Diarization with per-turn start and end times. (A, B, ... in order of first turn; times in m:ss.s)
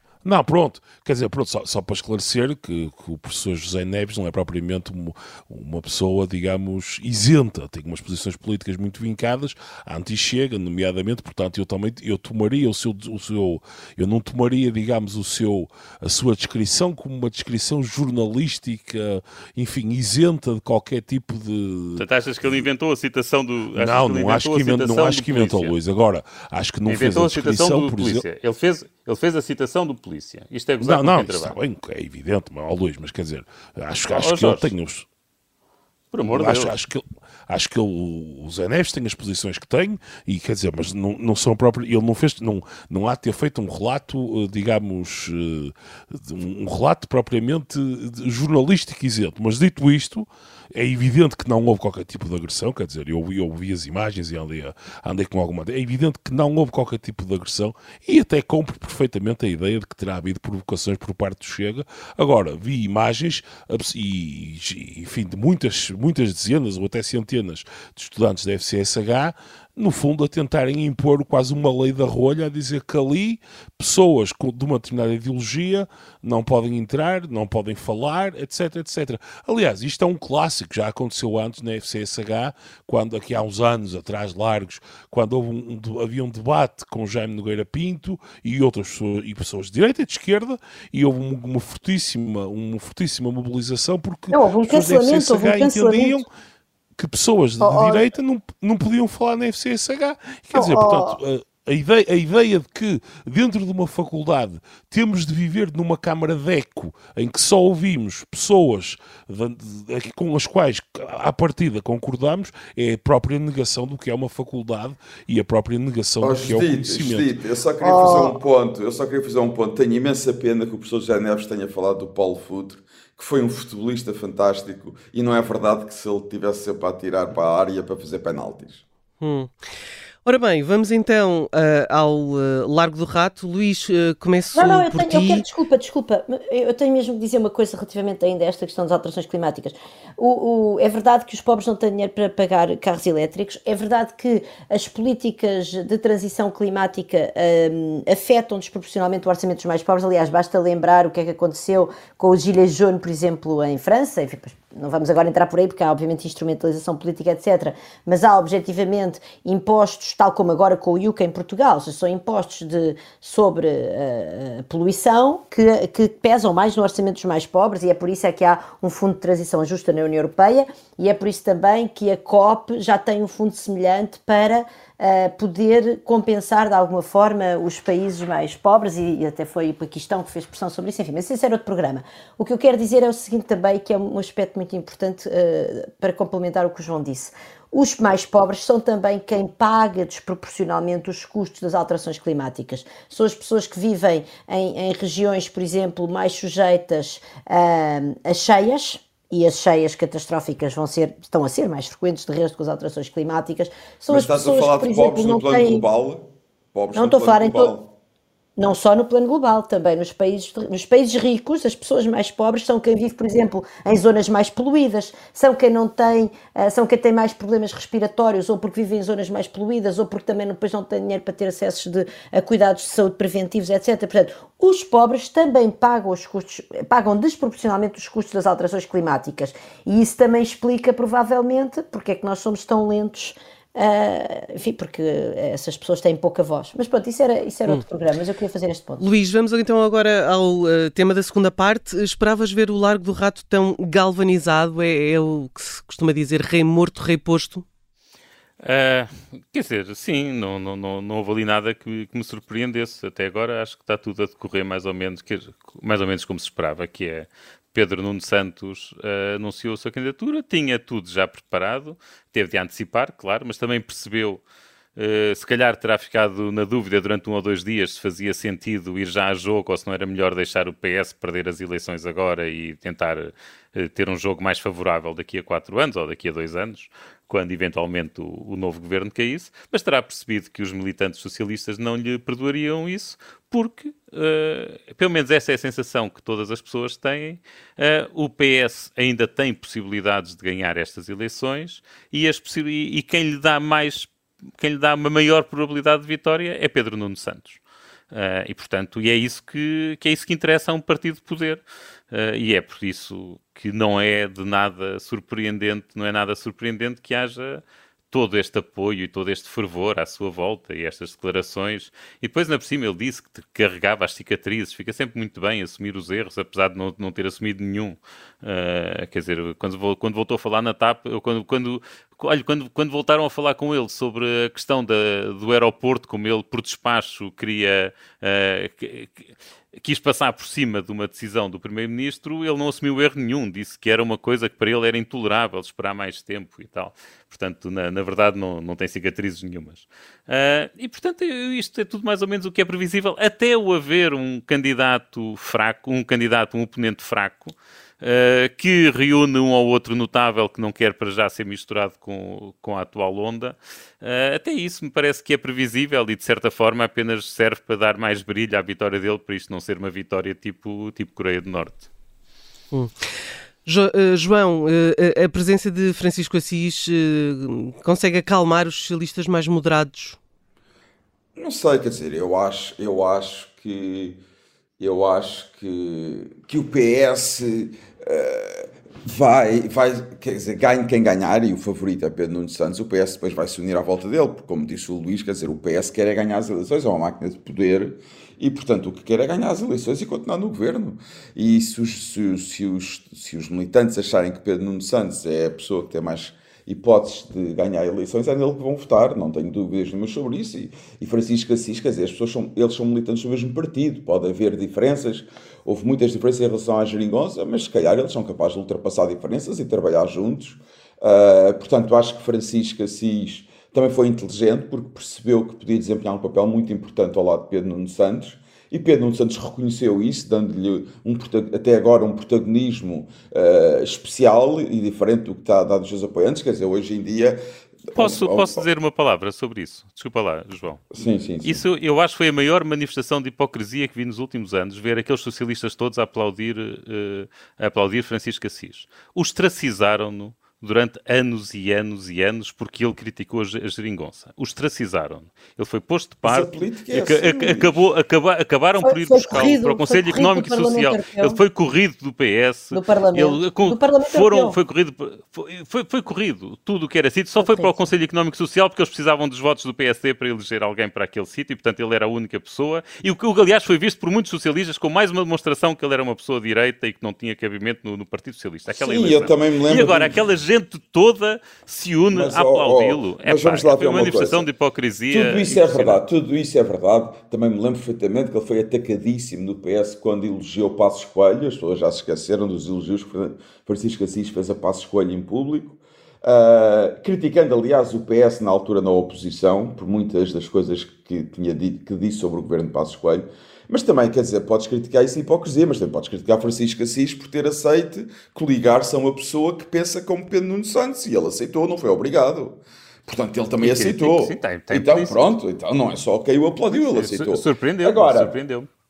0:00.2-0:22.7 A
0:22.0-0:25.8 B
0:23.7-0:28.2 A
0:26.9-0:31.6 B
0:30.8-0:35.1 A
0:34.1-0:34.7 B
0:36.1-0:36.8 B
0:36.3-1:36.3 A
1:34.3-1:36.2 C
1:37.0-1:57.3 A
1:37.6-1:38.1 C
1:40.5-1:41.2 C
1:56.2-2:08.8 D
1:57.8-1:58.4 C
2:09.2-2:09.6 E
2:10.2-2:15.4 E
2:14.5-3:25.9 C
3:24.1-3:27.9 D
3:27.0-3:27.8 C
3:28.6-3:59.0 C
3:59.0-4:07.6 E
4:08.6-4:24.4 B
4:25.0-4:57.6 B
4:58.1-5:29.2 B
5:29.8-6:01.9 B
6:02.7-6:10.2 E
6:11.4-6:14.2 D
6:14.8-7:08.6 D
7:08.0-7:10.8 B
7:10.9-7:11.7 D
7:11.4-7:56.0 B
7:26.2-7:27.8 D
7:28.8-7:31.4 C
7:32.7-7:34.6 C
7:37.4-7:37.7 C
7:48.7-7:50.2 D
7:52.1-7:54.5 D
7:55.1-8:28.3 D
8:23.6-8:25.2 B
8:26.9-8:28.7 B